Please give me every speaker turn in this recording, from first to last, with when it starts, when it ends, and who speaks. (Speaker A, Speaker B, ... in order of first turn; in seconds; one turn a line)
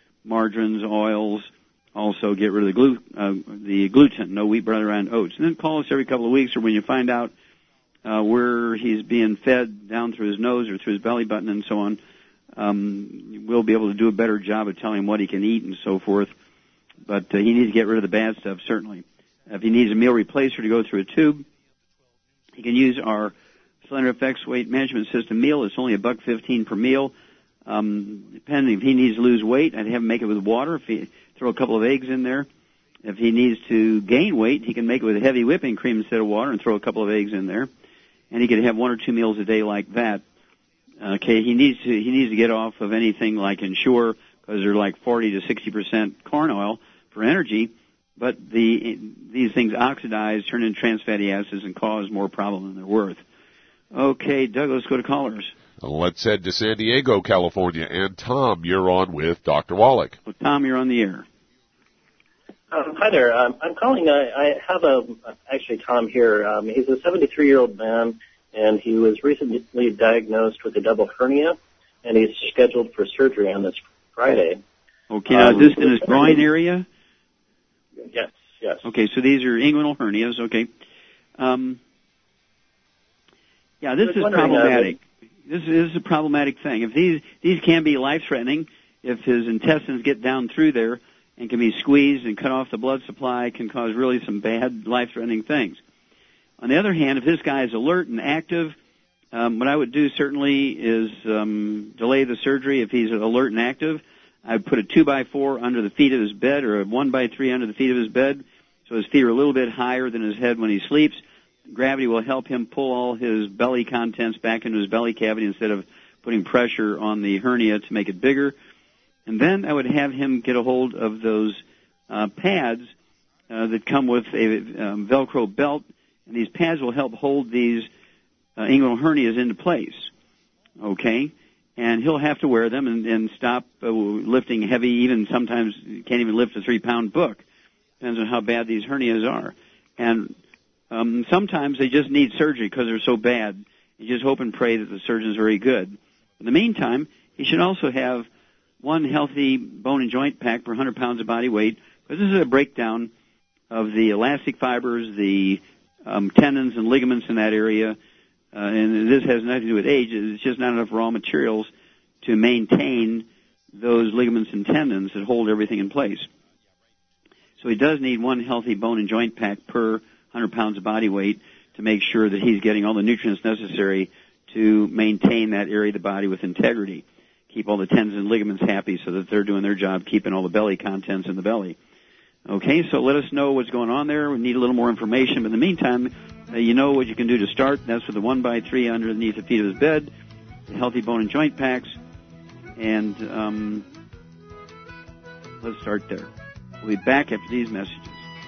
Speaker A: 0.2-7.3
Speaker A: 8.0-12.0
Speaker A: 12.6-16.3
Speaker A: 17.1-21.4
Speaker A: 22.6-23.3
Speaker A: 23.9-27.1
Speaker A: 27.6-32.5
Speaker A: 33.0-37.7
Speaker A: 38.3-40.2
Speaker A: 41.0-53.2
Speaker A: 53.9-55.5
Speaker B: 55.8-60.2
Speaker A: 60.3-61.2
Speaker C: 62.7-74.6
Speaker A: 75.1-76.8
Speaker C: 75.3-76.5
Speaker C: 78.1-78.8
Speaker A: 78.8-80.7
Speaker A: 81.4-81.8
Speaker A: 83.8-95.8
Speaker C: 84.0-85.0
Speaker A: 96.6-98.7
Speaker A: 99.3-118.5
Speaker A: 119.3-122.9
Speaker A: 123.5-127.9
Speaker A: 128.6-130.1
Speaker A: 130.8-137.4
Speaker A: 138.0-140.4
Speaker A: 140.9-148.3
Speaker A: 148.8-153.1
Speaker A: 153.7-158.0
Speaker A: 158.5-161.7
Speaker A: 162.2-163.2
Speaker A: 163.8-166.3
Speaker A: 167.6-181.8
Speaker A: 182.5-190.1
Speaker A: 190.7-192.0
Speaker A: 192.8-193.8
Speaker A: 195.6-196.3
Speaker A: 196.8-198.2